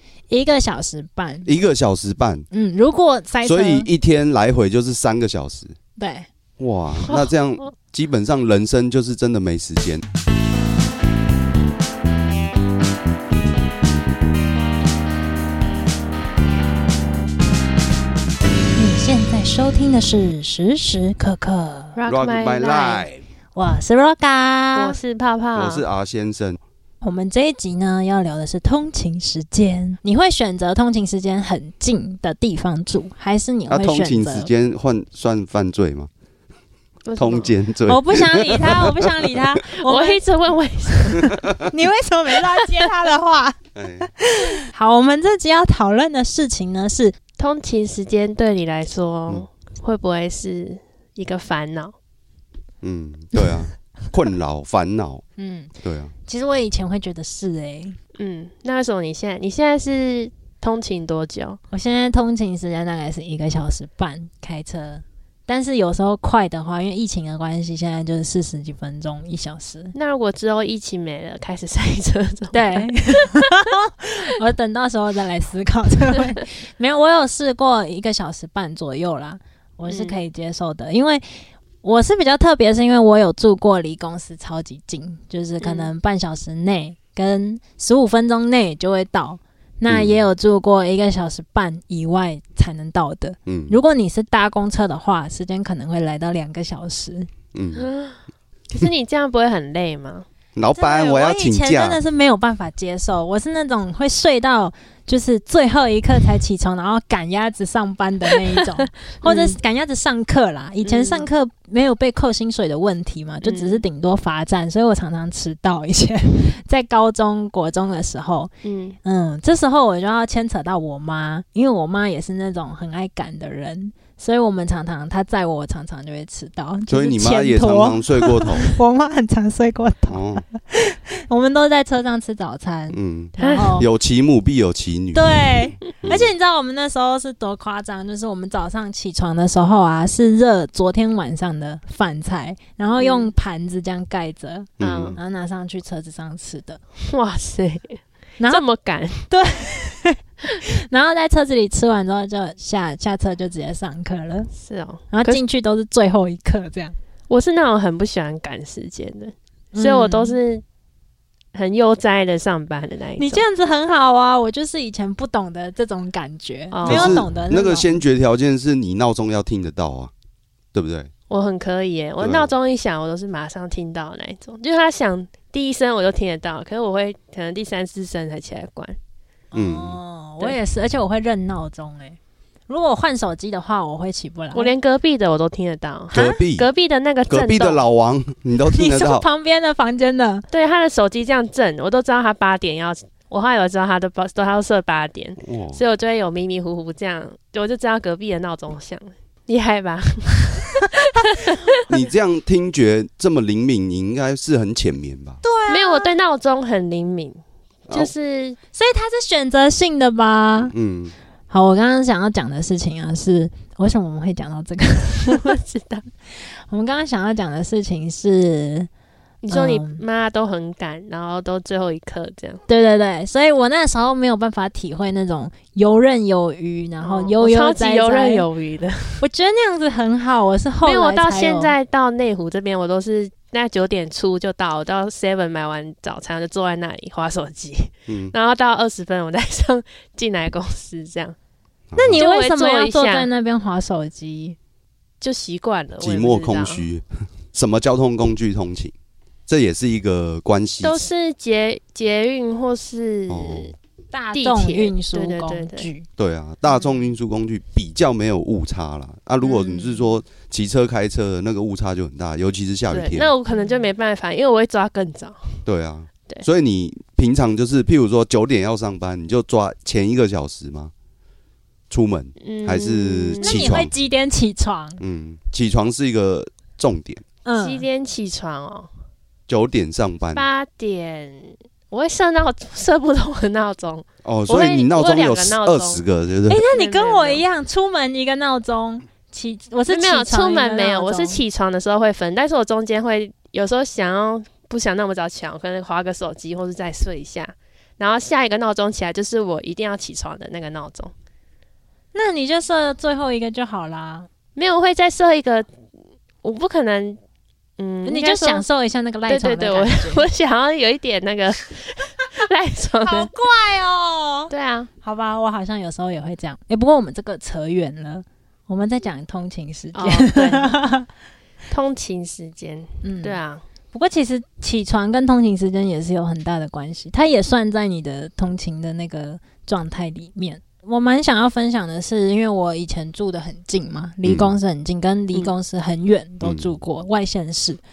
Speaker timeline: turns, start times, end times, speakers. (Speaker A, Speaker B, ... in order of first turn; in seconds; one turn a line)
Speaker A: 0.3-1.5
Speaker B: 1.4-2.5
Speaker A: 2.5-3.9
Speaker B: 3.4-5.7
Speaker A: 6.0-6.3
Speaker B: 6.6-10.0
Speaker A: 18.8-22.0
Speaker C: 21.9-23.1
Speaker B: 22.1-23.2
Speaker A: 23.5-25.0
Speaker C: 24.7-25.8
Speaker B: 25.5-26.6
Speaker A: 27.0-34.5
Speaker B: 33.7-36.1
Speaker C: 37.0-37.5
Speaker B: 37.2-39.4
Speaker A: 37.9-40.2
Speaker C: 39.7-41.3
Speaker A: 40.9-47.2
Speaker B: 43.8-44.1
Speaker C: 47.4-51.9
Speaker B: 52.8-55.2
Speaker A: 55.4-55.7
Speaker B: 55.8-56.1
Speaker A: 56.2-58.0
Speaker C: 58.1-61.6
Speaker A: 61.7-69.9
Speaker C: 69.9-73.4
Speaker A: 72.5-97.3
Speaker C: 79.9-80.2
Speaker C: 85.6-85.9
Speaker B: 89.9-90.2
Speaker B: 93.5-93.8
Speaker B: 97.5-97.9
Speaker C: 97.8-98.2
Speaker C: 98.7-100.2
Speaker B: 100.5-102.0
Speaker A: 100.7-118.5
Speaker C: 109.2-109.6
Speaker C: 110.8-111.3
Speaker C: 113.4-113.8
Speaker C: 118.6-119.0
Speaker A: 119.0-133.8
Speaker B: 126.9-128.8
Speaker B: 130.1-130.4
Speaker B: 132.9-136.3
Speaker C: 133.4-133.7
Speaker A: 135.1-146.8
Speaker C: 143.0-143.3
Speaker B: 144.8-145.2
Speaker C: 144.8-145.2
Speaker C: 147.0-149.3
Speaker A: 148.4-148.6
Speaker A: 149.3-154.5
Speaker C: 154.5-155.4
Speaker A: 155.1-156.9
Speaker C: 157.3-160.6
Speaker A: 159.7-160.4
Speaker C: 161.5-163.4
Speaker A: 163.2-168.0
Speaker C: 166.7-167.2
Speaker B: 166.8-170.1
Speaker B: 170.7-171.1
Speaker C: 171.3-179.0
Speaker B: 172.2-172.5
Speaker A: 179.5-184.7
Speaker B: 179.5-180.0
Speaker C: 184.5-187.8
Speaker B: 186.1-186.7
Speaker A: 186.1-186.4
Speaker B: 187.3-189.2
Speaker A: 188.7-190.4
Speaker C: 190.5-201.8
Speaker B: 195.4-195.8
Speaker B: 201.9-205.4
Speaker A: 205.4-206.1
Speaker C: 205.7-208.6
Speaker A: 208.7-210.7
Speaker B: 210.7-211.1
Speaker A: 211.5-215.6
Speaker C: 215.2-216.1
Speaker A: 216.3-218.9
Speaker C: 219.4-222.6
Speaker A: 219.5-220.0
Speaker A: 222.7-228.4
Speaker C: 227.0-229.2
Speaker A: 229.2-231.7
Speaker C: 230.8-241.3
Speaker B: 238.1-238.3
Speaker B: 241.9-242.2
Speaker A: 241.9-244.6
Speaker C: 242.1-243.3
Speaker C: 245.2-246.8
Speaker B: 246.0-248.9
Speaker B: 249.5-251.1
Speaker C: 250.8-253.7
Speaker B: 253.3-253.7
Speaker A: 254.1-256.1
Speaker C: 254.3-255.9
Speaker B: 256.2-263.3
Speaker C: 259.4-260.0
Speaker C: 262.9-265.6
Speaker A: 263.5-263.9
Speaker B: 265.6-270.9
Speaker B: 271.9-273.9
Speaker C: 272.4-273.8
Speaker A: 273.4-275.0
Speaker B: 275.0-277.2
Speaker A: 277.4-277.8
Speaker C: 277.5-278.9
Speaker B: 279.5-280.4
Speaker C: 280.3-286.0
Speaker B: 284.2-286.6
Speaker A: 286.5-291.4
Speaker C: 286.7-287.4
Speaker C: 289.9-301.1
Speaker A: 302.1-304.3
Speaker C: 304.6-305.7
Speaker C: 306.4-307.2
Speaker C: 307.8-308.6
Speaker A: 308.0-310.3
Speaker C: 309.3-313.3
Speaker A: 313.0-314.5
Speaker C: 314.5-314.9
Speaker A: 315.0-321.1
Speaker C: 319.9-320.8
Speaker C: 321.7-323.6
Speaker A: 323.0-323.4
Speaker A: 323.9-337.8
Speaker B: 334.2-334.5
Speaker B: 336.4-336.7